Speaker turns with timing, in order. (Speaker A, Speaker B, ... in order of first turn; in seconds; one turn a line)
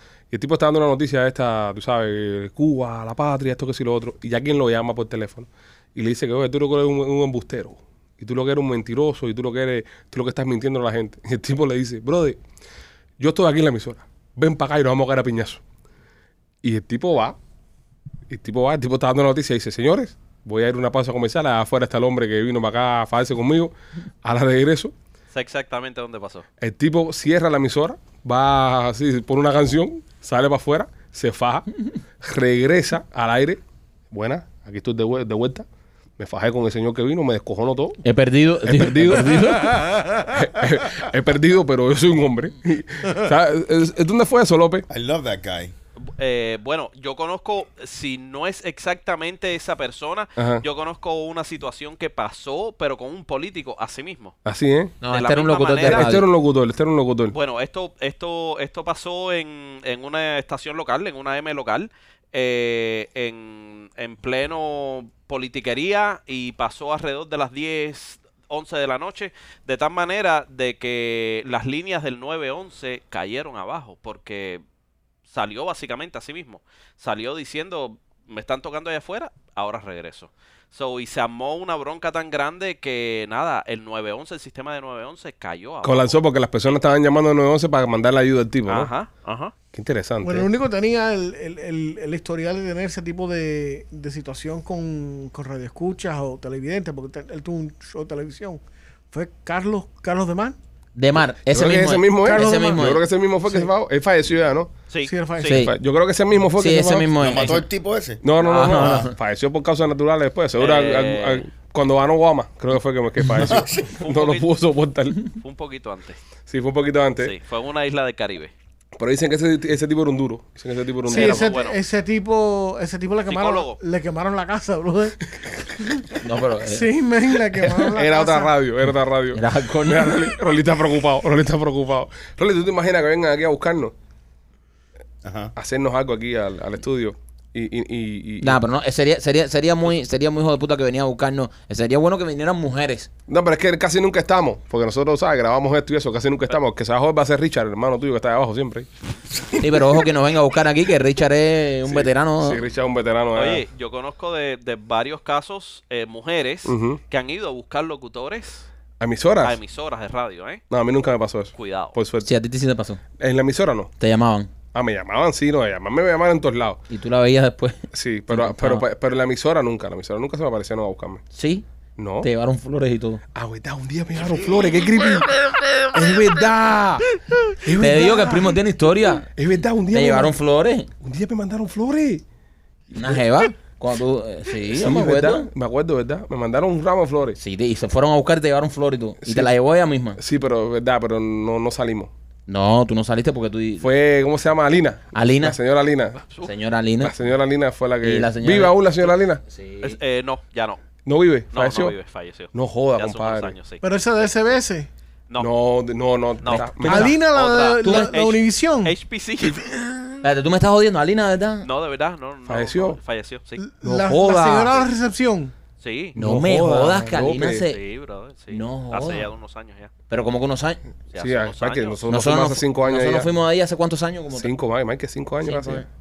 Speaker A: 0.3-12.4
Speaker A: 13.2-15.6
Speaker A: 16.6-17.4
Speaker A: 18.3-23.7
Speaker A: 24.2-24.9
Speaker B: 25.3-26.4
Speaker A: 26.6-31.7
Speaker A: 32.2-33.6
Speaker A: 34.1-35.6
Speaker A: 36.2-38.0
Speaker C: 38.0-39.8
Speaker A: 38.6-44.9
Speaker D: 44.9-45.7
Speaker B: 46.2-54.4
Speaker A: 50.4-50.6
Speaker A: 54.4-55.0
Speaker C: 55.0-56.2
Speaker B: 55.1-56.1
Speaker A: 55.8-57.4
Speaker B: 57.3-74.6
Speaker B: 75.3-86.2
Speaker A: 85.8-88.9
Speaker B: 88.7-89.5
Speaker A: 89.7-90.5
Speaker E: 90.2-100.6
Speaker C: 101.0-103.0
Speaker A: 101.5-104.7
Speaker E: 102.2-103.0
Speaker B: 104.9-105.6
Speaker E: 105.0-105.6
Speaker C: 105.5-105.7
Speaker A: 105.5-107.4
Speaker C: 106.6-107.6
Speaker D: 107.2-108.2
Speaker A: 108.2-115.3
Speaker C: 108.3-109.2
Speaker D: 108.7-109.1
Speaker B: 110.6-111.4
Speaker D: 113.3-114.0
Speaker B: 114.0-114.5
Speaker B: 115.2-116.2
Speaker A: 116.5-117.3
Speaker B: 117.2-118.5
Speaker A: 119.0-121.5
Speaker B: 121.0-121.8
Speaker E: 121.0-125.2
Speaker B: 123.3-123.8
Speaker E: 125.8-126.0
Speaker C: 126.2-126.9
Speaker E: 126.7-128.5
Speaker A: 127.6-133.9
Speaker C: 129.3-130.3
Speaker D: 135.2-135.5
Speaker A: 135.6-138.6
Speaker C: 138.4-143.1
Speaker A: 143.3-148.9
Speaker C: 149.5-152.6
Speaker A: 151.9-153.6
Speaker B: 153.3-158.7
Speaker A: 156.6-157.0
Speaker A: 159.0-159.6
Speaker B: 159.4-160.6
Speaker A: 160.7-162.3
Speaker B: 161.6-161.9
Speaker C: 162.2-163.0
Speaker A: 163.2-163.9
Speaker C: 164.0-164.5
Speaker A: 164.7-166.8
Speaker C: 166.9-168.8
Speaker A: 167.9-171.2
Speaker C: 171.3-171.7
Speaker A: 172.0-172.3
Speaker C: 172.2-173.2
Speaker A: 173.3-175.3
Speaker A: 175.9-177.0
Speaker A: 177.6-178.5
Speaker C: 177.7-179.3
Speaker A: 179.3-180.3
Speaker C: 179.9-180.9
Speaker A: 181.0-182.2
Speaker C: 182.9-185.5
Speaker A: 184.7-187.4
Speaker C: 187.4-190.2
Speaker A: 189.2-189.5
Speaker A: 190.2-192.1
Speaker C: 192.5-193.9
Speaker A: 193.8-196.2
Speaker C: 195.1-195.6
Speaker C: 196.4-197.1
Speaker A: 197.0-199.4
Speaker C: 198.0-200.0
Speaker B: 199.8-200.8
Speaker A: 201.0-201.9
Speaker B: 201.5-204.3
Speaker A: 202.5-203.6
Speaker E: 203.8-204.9
Speaker A: 205.4-207.2
Speaker B: 206.4-210.0
Speaker C: 206.4-207.2
Speaker E: 206.8-208.9
Speaker C: 207.8-208.1
Speaker C: 210.2-211.7
Speaker B: 211.6-213.6
Speaker A: 212.5-213.0
Speaker E: 213.6-215.5
Speaker A: 213.8-214.7
Speaker B: 215.8-216.2
Speaker A: 216.1-217.6
Speaker C: 216.2-217.8
Speaker B: 217.6-219.9
Speaker C: 218.5-219.3
Speaker C: 220.1-220.8
Speaker B: 221.1-222.0
Speaker A: 221.2-223.3
Speaker C: 222.1-224.5
Speaker A: 224.3-225.8
Speaker C: 225.4-225.9